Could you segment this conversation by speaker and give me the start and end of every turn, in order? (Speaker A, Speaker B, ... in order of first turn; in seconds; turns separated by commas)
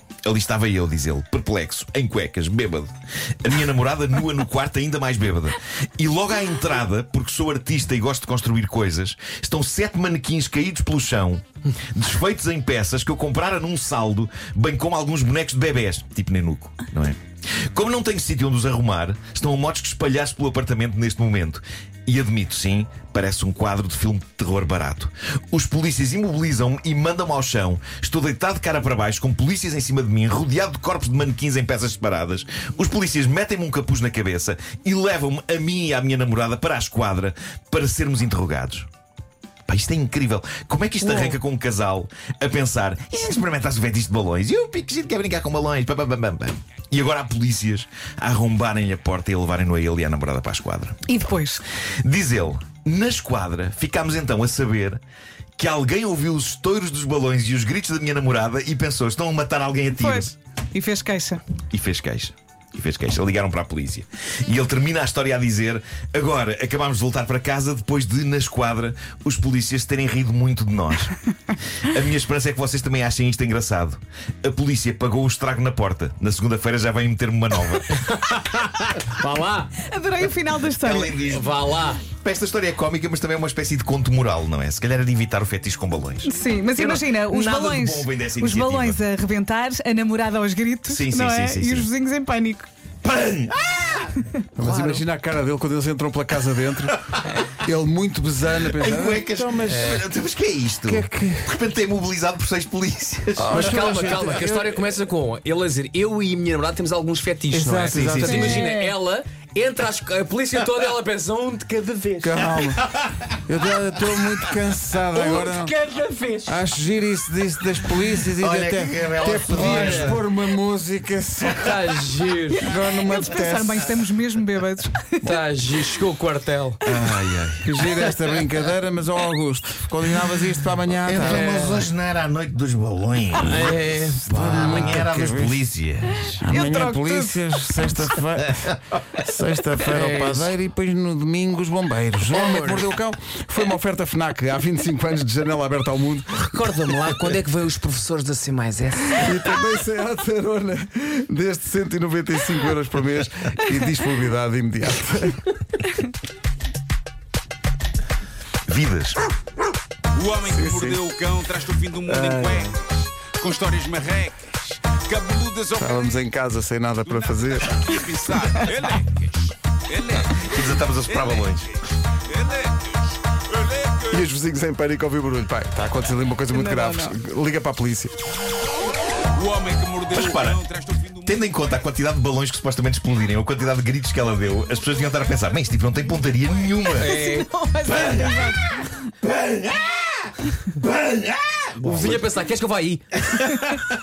Speaker A: 0.2-17.1, Speaker A: 17.7-38.9, Speaker A: 39.7-51.0, Speaker B: 51.1-51.6, Speaker A: 52.0-55.0, Speaker A: 55.6-60.3, Speaker B: 59.9-61.4, Speaker A: 61.7-71.2, Speaker A: 71.8-78.0, Speaker C: 77.9-79.8, Speaker B: 79.8-81.3, Speaker A: 80.8-89.0, Speaker C: 81.3-82.0, Speaker B: 86.3-92.7, Speaker A: 90.9-91.9, Speaker A: 93.0-95.0, Speaker D: 94.6-97.0, Speaker A: 96.9-97.4, Speaker D: 97.6-100.0, Speaker A: 98.7-104.1, Speaker C: 99.7-100.0, Speaker D: 100.8-101.5, Speaker D: 103.4-104.9, Speaker C: 103.4-112.4, Speaker D: 107.5-108.6, Speaker A: 107.9-108.6, Speaker B: 108.2-108.9, Speaker D: 112.2-112.8, Speaker A: 112.4-113.3, Speaker D: 113.5-115.7, Speaker C: 115.1-116.6, Speaker D: 116.4-121.7, Speaker A: 118.2-120.2, Speaker C: 119.5-120.2, Speaker C: 121.5-122.7, Speaker D: 122.5-123.9, Speaker B: 123.0-125.3, Speaker C: 125.2-126.8, Speaker A: 126.8-127.8, Speaker D: 127.6-131.5, Speaker A: 131.1-136.4, Speaker C: 131.2-131.9, Speaker C: 133.4-135.0, Speaker D: 134.2-135.6, Speaker D: 136.4-146.5, Speaker B: 136.5-137.4, Speaker C: 139.8-140.5, Speaker C: 142.3-142.9, Speaker C: 146.3-149.3, Speaker D: 149.2-155.5, Speaker A: 158.7-159.2, Speaker E: 160.1-166.2, Speaker D: 160.4-161.0, Speaker A: 162.2-162.6, Speaker D: 165.8-167.9, Speaker E: 167.0-174.2, Speaker A: 170.3-171.7, Speaker D: 174.1-178.1, Speaker B: 176.5-177.2, Speaker E: 179.3-181.5, Speaker A: 180.1-180.6, Speaker A: 181.2-187.1, Speaker C: 187.0-187.5, Speaker B: 187.0-189.1, Speaker A: 187.9-188.5, Speaker A: 189.2-192.2, Speaker C: 191.8-193.7